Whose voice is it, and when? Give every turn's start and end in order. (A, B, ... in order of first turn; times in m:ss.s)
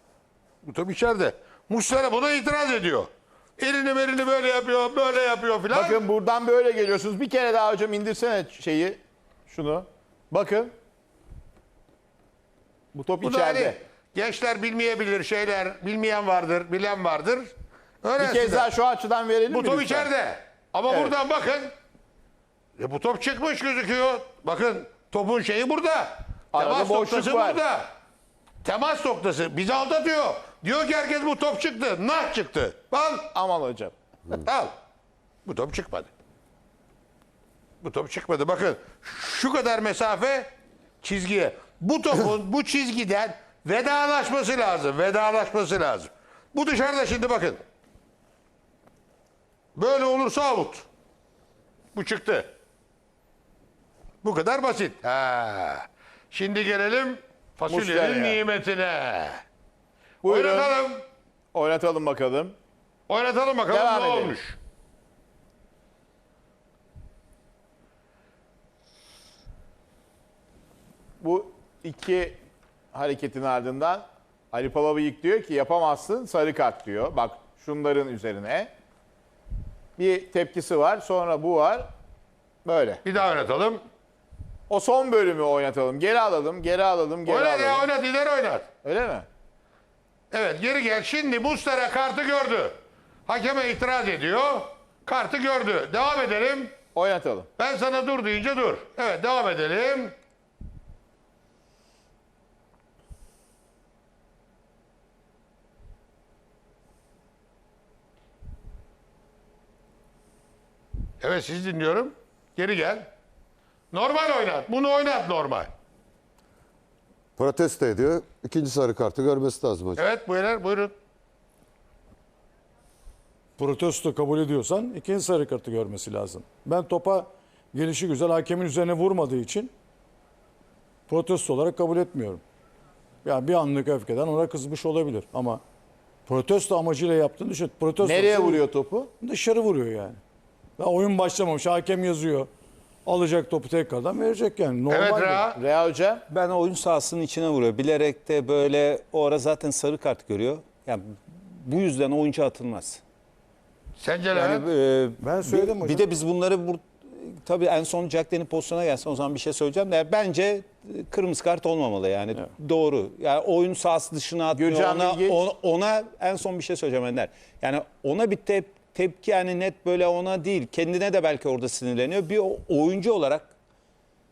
0:00.6-0:06.0 A
0:05.7-0:10.7 B
0:12.9-0:13.8 B
0:13.2-0:18.7 A
0:18.2-0:20.1 B
0:19.5-0:21.7 A
0:20.9-0:21.2 B
0:22.8-0:27.9 A
0:26.5-0:27.6 B
0:28.6-0:33.3 A
0:33.3-0:33.9 B
0:34.3-0:34.7 A
0:35.5-0:36.1 A
0:37.8-0:40.5 A
0:41.0-0:47.6 A
0:49.8-0:50.9 A
0:51.9-0:52.5 A
0:54.2-0:59.4 A
0:57.7-0:58.4 B
1:00.2-1:00.8 B
1:00.2-1:01.0 A
1:01.5-1:02.6 B
1:03.1-1:04.6 A
1:03.7-1:04.4 B
1:11.2-1:12.4 B
1:12.9-1:18.7 B
1:20.0-1:21.9 B
1:22.6-1:23.0 B
1:23.0-1:23.8 A
1:24.7-1:27.9 B
1:27.3-1:28.7 A
1:28.8-1:29.3 B
1:30.3-1:36.7 A
1:37.0-1:37.5 B
1:37.6-1:40.1 A
1:51.2-1:53.1 A
1:53.9-1:55.7 A
1:57.4-2:00.0 C
2:00.0-2:00.9 A
2:03.6-2:09.7 D
2:11.1-2:12.4 D
2:13.2-2:15.6 D
2:16.3-2:18.6 D
2:18.0-2:19.1 B
2:19.2-2:20.2 D
2:20.8-2:22.5 D
2:23.0-2:25.5 D
2:24.9-2:25.6 A
2:25.6-2:26.2 B
2:26.3-2:33.0 E
2:34.0-2:34.7 A
2:34.3-2:53.5 E
2:35.2-2:36.0 D
2:44.5-2:45.4 B